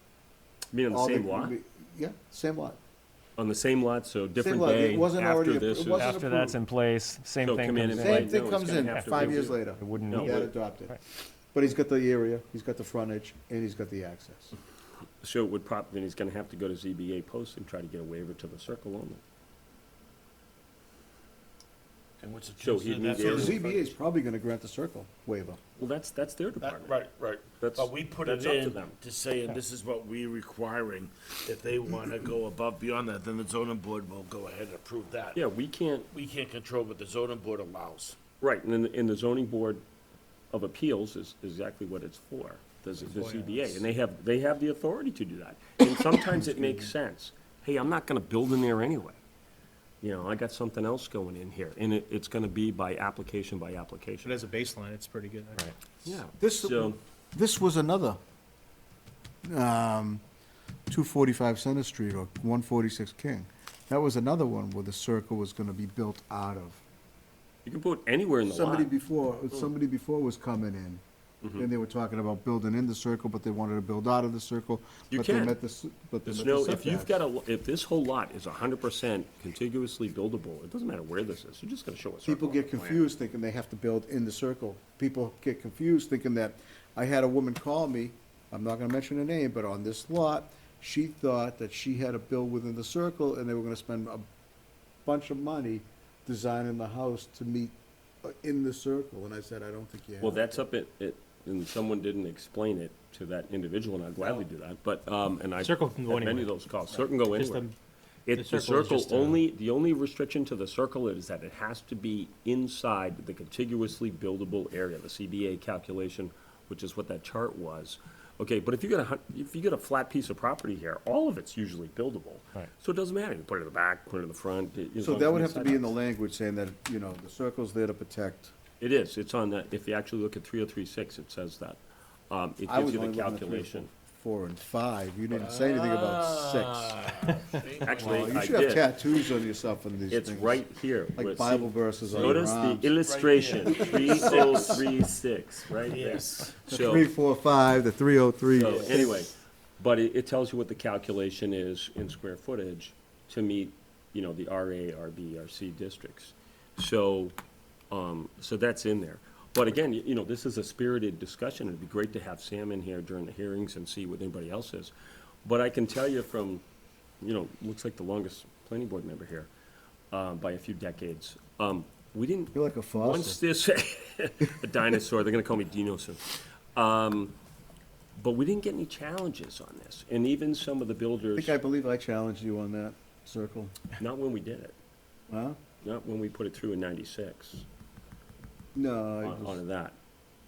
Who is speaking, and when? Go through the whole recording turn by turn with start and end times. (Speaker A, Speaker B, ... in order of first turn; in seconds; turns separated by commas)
Speaker A: 0.7-1.6, Speaker B: 0.9-2.8, Speaker A: 3.4-6.2, Speaker B: 4.4-6.6, Speaker C: 6.0-11.0, Speaker A: 7.4-10.5, Speaker B: 8.0-11.0, Speaker B: 11.5-14.5, Speaker A: 15.2-19.2, Speaker D: 22.2-24.0, Speaker A: 22.6-23.6, Speaker B: 23.1-25.6, Speaker A: 25.8-27.0, Speaker D: 26.6-35.5, Speaker A: 27.6-29.0, Speaker A: 35.3-36.1, Speaker D: 36.1-38.2, Speaker A: 38.4-39.8, Speaker A: 40.5-49.2, Speaker A: 50.0-54.3, Speaker E: 54.2-55.6, Speaker A: 55.6-57.0, Speaker B: 56.4-58.2, Speaker B: 59.4-60.2, Speaker B: 60.9-66.8, Speaker A: 67.7-68.9, Speaker B: 68.5-71.0, Speaker A: 71.4-71.7, Speaker B: 71.6-77.1, Speaker A: 75.1-75.6, Speaker A: 76.2-83.1, Speaker B: 82.2-94.2, Speaker B: 95.0-100.7, Speaker A: 100.2-107.7, Speaker E: 105.6-106.5, Speaker E: 107.2-107.8, Speaker A: 108.3-125.9, Speaker E: 108.4-109.4, Speaker B: 125.0-128.5, Speaker A: 128.8-133.9, Speaker B: 132.7-137.1, Speaker D: 135.3-138.4, Speaker A: 137.8-138.9, Speaker B: 137.9-140.6, Speaker A: 140.1-147.1, Speaker B: 141.2-142.9, Speaker D: 142.1-145.1, Speaker B: 143.7-144.7, Speaker D: 145.7-146.6, Speaker B: 146.7-149.2, Speaker A: 148.5-157.4, Speaker A: 157.9-164.9, Speaker A: 165.4-166.6, Speaker A: 167.2-169.5, Speaker A: 170.1-177.4, Speaker B: 172.5-173.4, Speaker A: 178.2-181.6, Speaker B: 181.4-183.8, Speaker A: 184.0-184.8, Speaker B: 185.3-185.6, Speaker A: 185.8-187.7, Speaker B: 188.8-189.6, Speaker A: 189.2-190.0